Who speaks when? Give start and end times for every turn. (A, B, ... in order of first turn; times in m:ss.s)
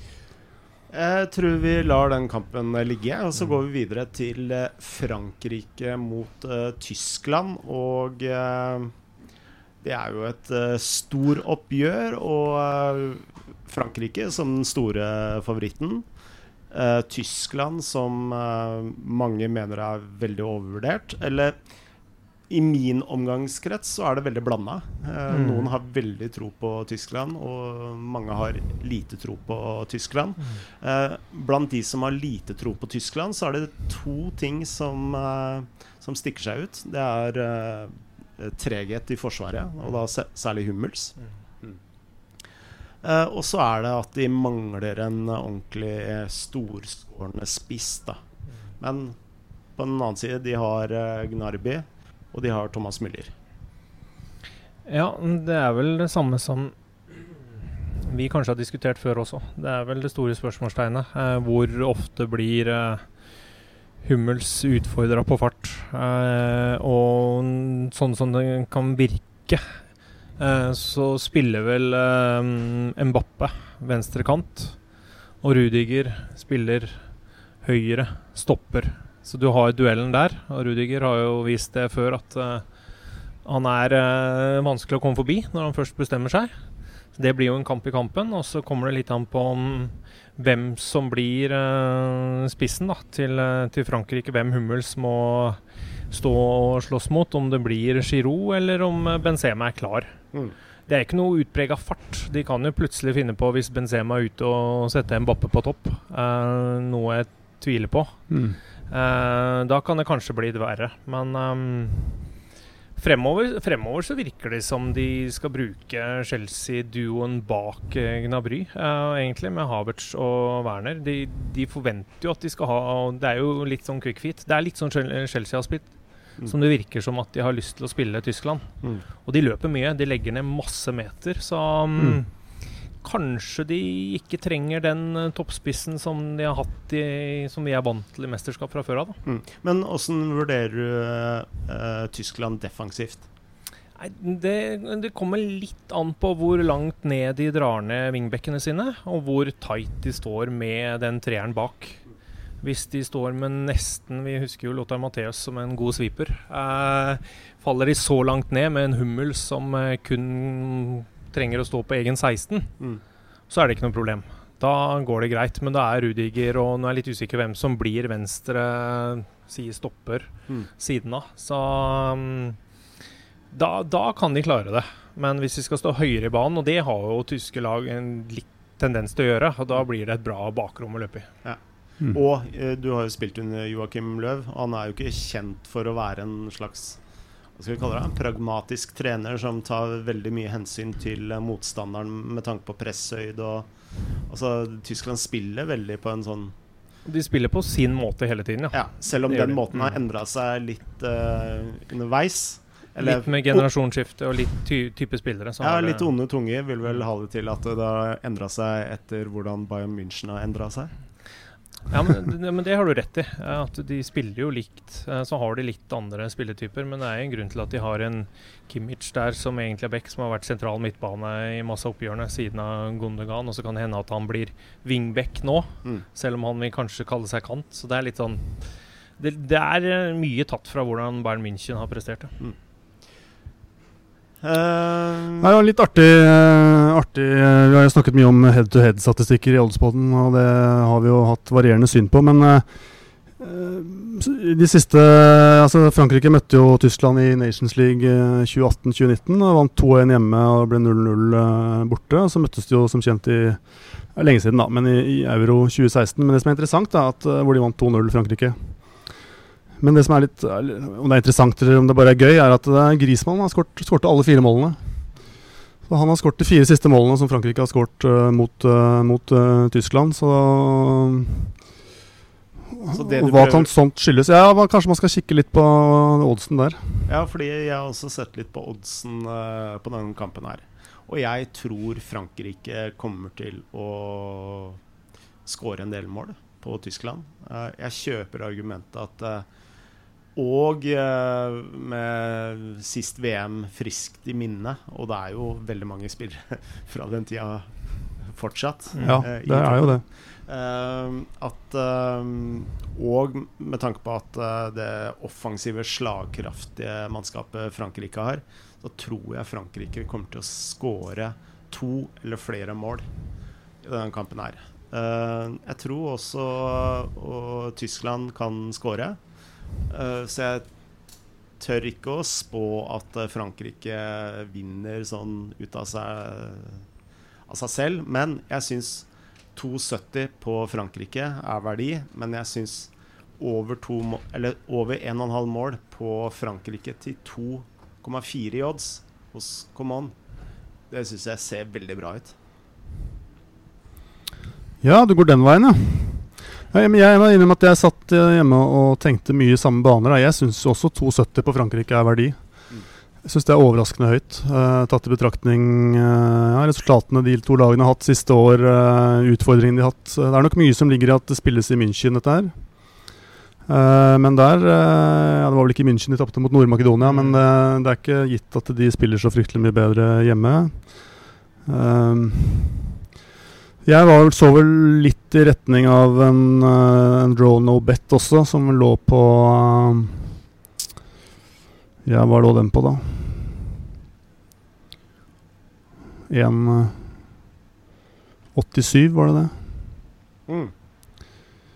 0:00.9-0:08.9 A
0:09.8-0:16.0 A
0:16.7-0:21.6 A
0:22.5-0:41.8 A
0:25.3-0:25.7 B
0:43.0-0:48.2 A
0:48.8-0:49.2 A
0:49.8-0:53.3 A
0:54.8-1:03.1 B
1:04.0-1:09.6 B
1:10.4-1:14.8 B
1:15.4-1:17.0 B
1:17.6-1:22.7 B
1:23.4-1:26.5 B
1:27.1-1:40.2 B
1:40.9-1:48.2 B
1:48.3-1:48.6 C
1:48.9-1:52.2 B
1:53.0-2:05.9 B
2:06.4-2:12.3 B
2:13.0-2:19.2 B
2:19.2-2:23.2 A
2:24.0-2:32.0 B
2:32.6-2:42.7 B
2:43.5-2:52.6 B
2:53.5-3:01.3 B
3:02.1-3:07.0 A
3:07.5-3:13.7 A
3:14.2-3:16.5 A
3:17.0-3:20.0 B
3:18.7-3:23.6 A
3:23.0-3:26.1 B
3:25.6-3:30.9 A
3:31.9-3:52.3 B
3:54.4-3:55.5 A
3:55.4-4:02.6 C
4:03.4-4:18.9 C
4:19.8-4:24.8 C
4:25.9-4:31.6 C
4:32.8-4:37.0 C
4:32.9-4:33.7 A
4:37.1-4:44.8 A
4:45.4-4:49.5 A
4:50.4-5:13.1 A
4:59.0-4:59.2 B
4:59.0-5:00.0 C
5:13.8-5:19.2 A
5:19.9-5:20.7 A
5:21.6-5:26.8 A
5:27.5-5:40.1 A
5:40.9-5:42.3 A
5:44.8-5:52.6 C
5:53.2-6:03.0 C
6:03.7-6:13.0 C
6:07.0-6:07.4 B
6:13.8-6:20.3 C
6:22.0-6:23.6 C
6:26.3-6:27.0 C
6:28.5-6:29.5 C
6:30.5-6:30.7 A